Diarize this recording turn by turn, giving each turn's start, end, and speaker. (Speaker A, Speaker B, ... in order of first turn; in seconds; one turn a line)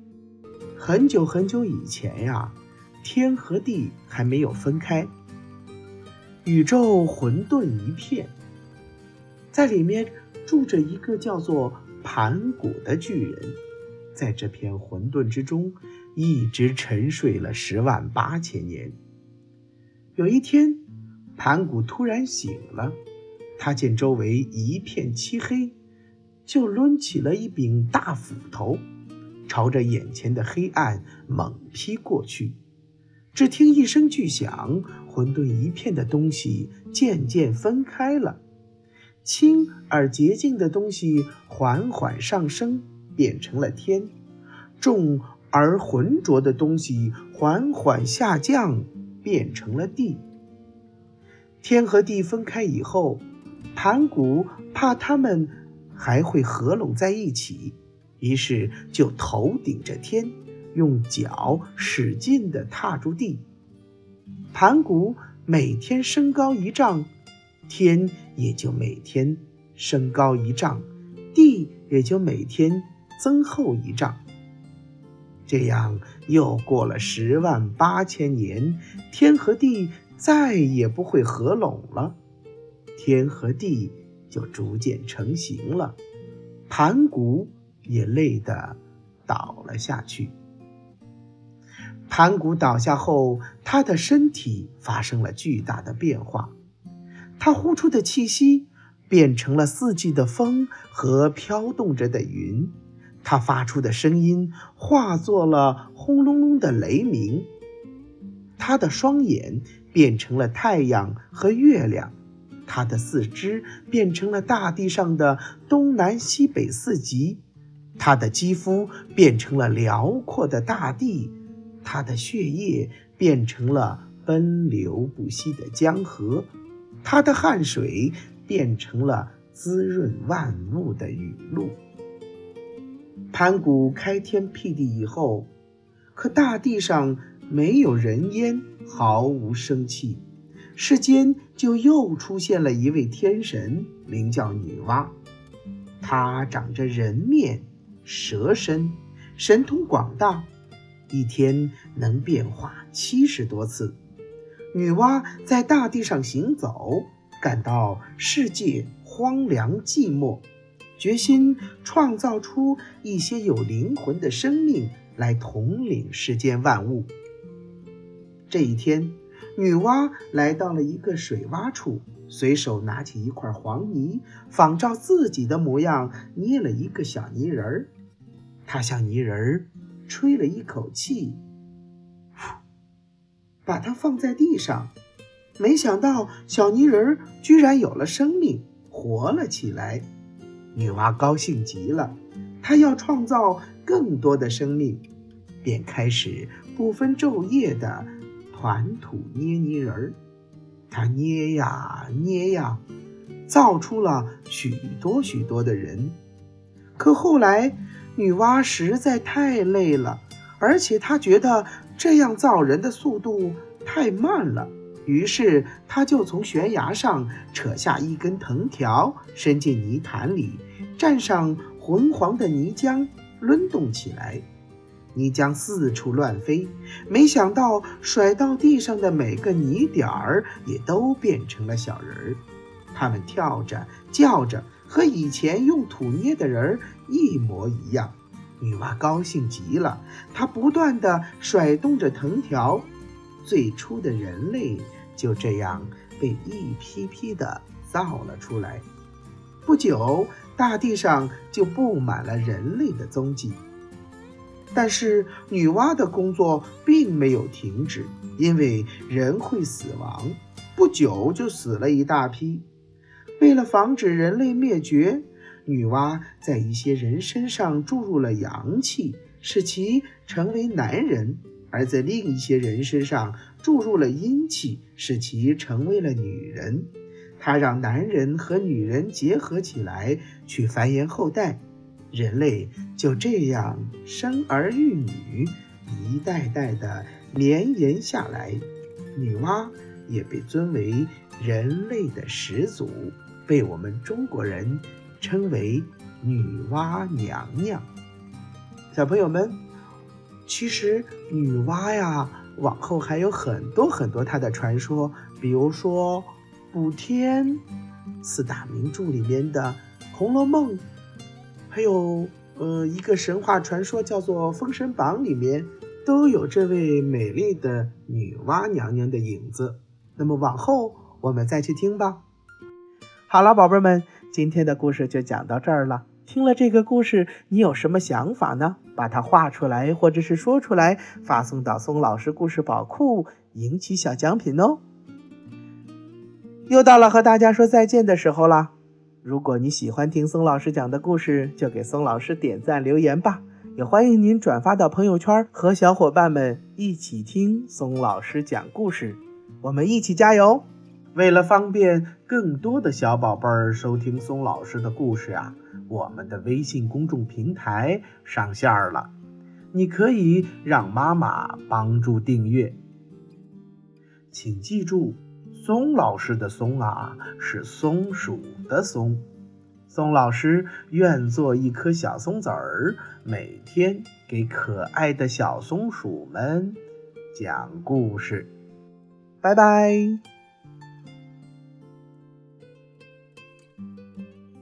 Speaker A: 0.8-5.1
Speaker A: 6.4-8.3
Speaker A: 9.5-13.6
Speaker A: 14.2-18.9
Speaker A: 20.2-20.8
Speaker A: 21.4-23.0
Speaker A: 23.6-25.8
Speaker A: 26.5-28.8
Speaker A: 29.5-32.6
Speaker A: 33.3-38.4
Speaker A: 39.2-44.1
Speaker A: 44.8-50.2
Speaker A: 51.6-53.2
Speaker A: 53.8-63.5
Speaker A: 64.5-67.1
Speaker A: 67.7-74.2
Speaker A: 75.5-82.2
Speaker A: 83.0-86.0
Speaker A: 86.7-90.3
Speaker A: 92.1-96.5
Speaker A: 97.4-107.5
Speaker A: 108.6-112.1
Speaker A: 112.7-117.4
Speaker A: 118.0-126.5
Speaker A: 127.0-131.8
Speaker A: 133.3-135.5
Speaker A: 136.2-140.2
Speaker A: 140.8-145.1
Speaker A: 146.0-150.5
Speaker A: 151.1-154.0
Speaker A: 154.7-160.4
Speaker A: 161.0-167.1
Speaker A: 168.5-177.9
Speaker A: 178.7-181.4
Speaker A: 183.7-184.9
Speaker A: 185.6-190.1
Speaker A: 190.7-195.1
Speaker A: 195.6-200.2
Speaker A: 200.9-202.8
Speaker A: 203.5-206.2
Speaker A: 207.0-224.4
Speaker A: 225.1-242.9
Speaker A: 243.4-248.9
Speaker A: 249.6-253.6
Speaker A: 254.7-262.6
Speaker A: 263.4-297.9
Speaker A: 298.9-299.6
Speaker A: 300.5-307.6
Speaker A: 308.2-310.9
Speaker A: 311.7-322.2
Speaker A: 323.3-334.8
Speaker A: 336.7-359.1
Speaker A: 359.7-362.8
Speaker A: 364.3-369.2
Speaker A: 369.9-376.8
Speaker A: 377.3-378.5
Speaker A: 379.4-380.2